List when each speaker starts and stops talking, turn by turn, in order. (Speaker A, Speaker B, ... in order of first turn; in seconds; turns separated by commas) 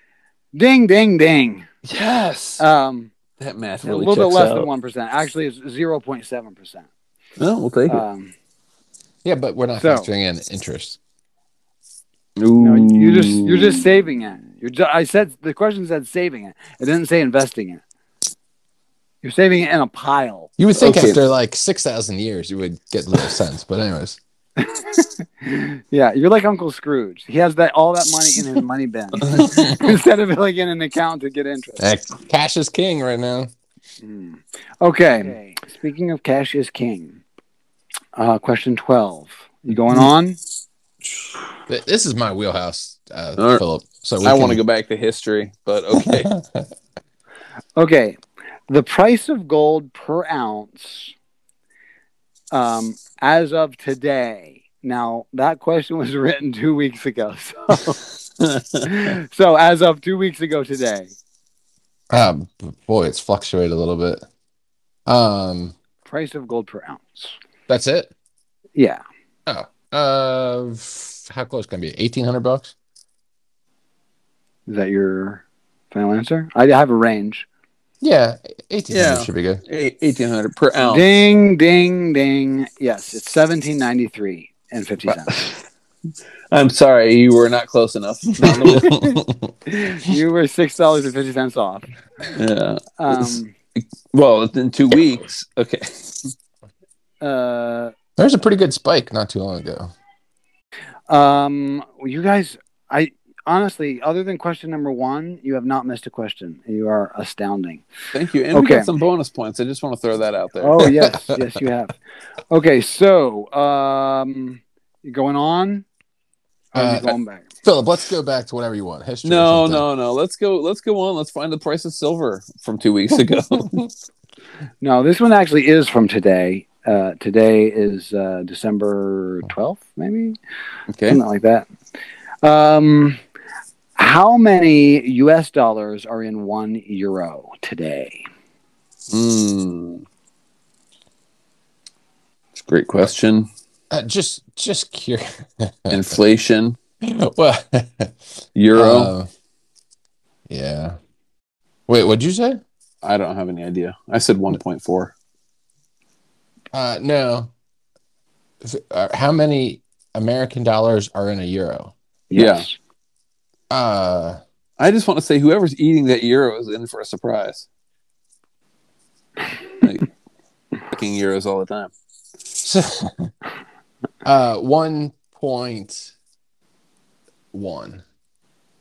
Speaker A: 0.5-1.7, Speaker B: 1.8-2.6, Speaker A: 2.6-3.1, Speaker B: 3.4-4.7, Speaker A: 3.8-6.9, Speaker B: 7.4-8.0, Speaker A: 7.9-8.3, Speaker C: 9.2-11.0, Speaker A: 9.8-10.1, Speaker B: 12.4-13.8, Speaker A: 12.6-17.8, Speaker A: 19.2-20.5, Speaker C: 20.6-24.2, Speaker B: 20.8-21.2, Speaker A: 24.6-31.8, Speaker C: 31.8-33.5, Speaker A: 34.0-37.2, Speaker A: 38.1-40.4, Speaker C: 41.7-44.6, Speaker B: 43.4-43.6, Speaker B: 44.2-46.3, Speaker C: 46.0-46.7, Speaker A: 47.8-51.1, Speaker A: 52.5-58.0, Speaker B: 58.4-58.9, Speaker A: 58.8-61.1, Speaker C: 62.1-64.2, Speaker C: 65.0-65.7, Speaker A: 66.0-67.3, Speaker C: 67.7-68.1, Speaker A: 68.8-69.0, Speaker C: 69.5-72.7, Speaker A: 74.7-77.5, Speaker C: 78.0-79.6, Speaker B: 78.9-81.1, Speaker A: 80.8-85.5, Speaker B: 85.3-85.5, Speaker B: 86.5-89.1, Speaker C: 88.6-89.0, Speaker A: 88.7-89.0, Speaker A: 89.7-91.9, Speaker B: 92.3-96.3, Speaker A: 93.0-93.5, Speaker A: 97.2-97.9, Speaker C: 98.2-99.9, Speaker A: 101.1-107.8, Speaker B: 108.1-110.9, Speaker A: 108.5-108.9, Speaker A: 110.6-111.9, Speaker C: 110.8-111.4, Speaker A: 112.5-115.8, Speaker A: 116.7-117.4, Speaker C: 116.7-119.8, Speaker B: 119.2-123.8, Speaker A: 124.8-130.4, Speaker B: 130.9-131.2, Speaker A: 131.1-131.7, Speaker A: 132.4-133.2, Speaker A: 133.9-138.2, Speaker B: 139.1-140.0, Speaker B: 142.5-143.5, Speaker C: 143.9-146.2, Speaker B: 145.9-146.8, Speaker C: 147.0-148.2, Speaker B: 148.6-149.1, Speaker C: 148.7-149.3, Speaker C: 150.5-151.0, Speaker C: 151.9-152.6, Speaker B: 153.0-155.1, Speaker C: 156.7-157.5, Speaker C: 158.6-161.9, Speaker A: 162.3-162.7, Speaker B: 162.3-162.7, Speaker C: 163.7-164.4, Speaker B: 164.8-167.7, Speaker B: 169.8-170.1, Speaker B: 170.9-171.9, Speaker C: 172.6-173.3, Speaker C: 174.2-176.1, Speaker C: 177.5-178.0